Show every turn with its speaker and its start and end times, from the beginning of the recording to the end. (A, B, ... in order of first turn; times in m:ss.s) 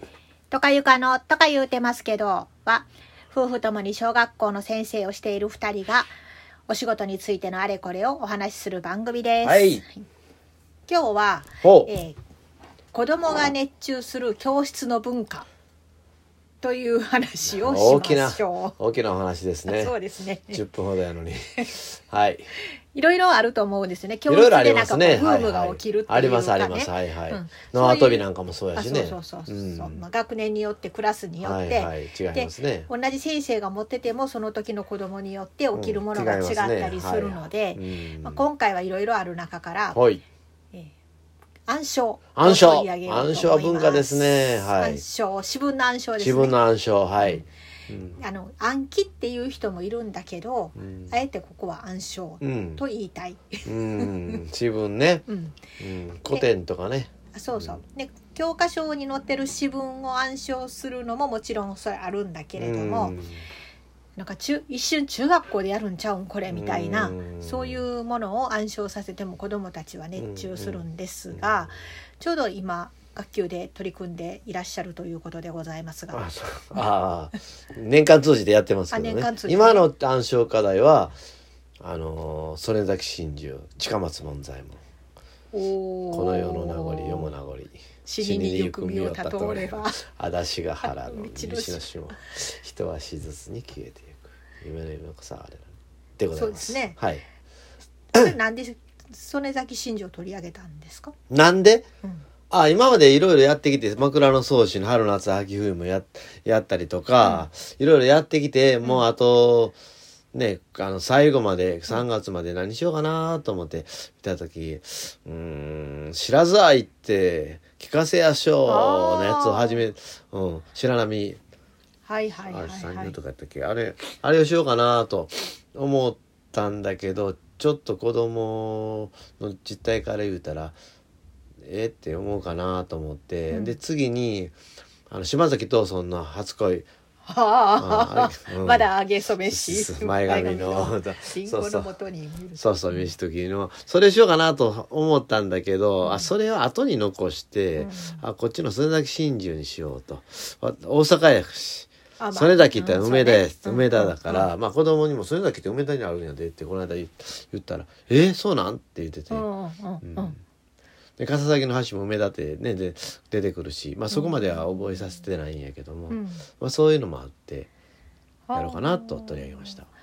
0:00.5-0:06.1 A
0:06.7-0:10.0 A
0:09.4-0:09.8 B
0:10.9-0:12.2 A
0:11.6-0:11.9 B
0:12.9-0:15.5 A
0:16.6-0:18.8 A
0:17.5-0:19.9 B
0:19.7-0:20.6 A
0:20.5-0:22.5 B
0:22.6-0:40.0 A
0:24.3-0:30.0 B
0:31.4-0:32.9 B
0:35.7-0:38.4 B
0:39.9-0:40.2 B
0:41.7-0:46.6 A
0:42.4-0:45.0 B
0:46.2-0:48.2 B
0:47.2-0:47.4 A
0:48.2-0:54.4 A
0:50.8-0:51.1 B
0:52.4-0:52.8 B
0:53.7-0:55.2 B
0:55.3-0:55.6 A
0:55.8-0:57.8 B
0:57.3-1:03.2 A
1:02.6-1:03.4 B
1:04.2-1:16.2 A
1:06.5-1:07.8 B
1:10.2-1:11.7 B
1:16.1-1:21.2 B
1:18.9-1:19.9 A
1:21.8-1:24.8 B
1:25.5-1:27.3 A
1:26.1-1:37.2 B
1:28.1-1:30.0 A
1:30.8-1:31.9 A
1:36.4-1:37.0 A
1:38.1-1:41.1 A
1:41.3-1:41.9 B
1:42.5-1:49.8 B
1:47.2-1:47.5 A
1:50.3-2:01.4 B
1:58.7-1:59.8 A
2:02.1-2:03.2 A
2:02.5-2:10.8 B
2:11.6-2:14.6 B
2:13.5-2:13.8 A
2:15.1-2:16.9 B
2:17.3-2:23.1 A
2:17.8-2:18.9 B
2:19.5-2:21.9 B
2:22.6-2:39.5 B
2:26.0-2:26.3 A
2:27.8-2:28.2 A
2:32.2-2:34.5 A
2:39.3-2:40.4 A
2:40.0-2:40.4 B
2:41.2-2:47.7 B
2:44.1-2:45.3 A
2:46.1-2:46.5 A
2:48.5-2:49.8 A
2:48.5-2:49.9 B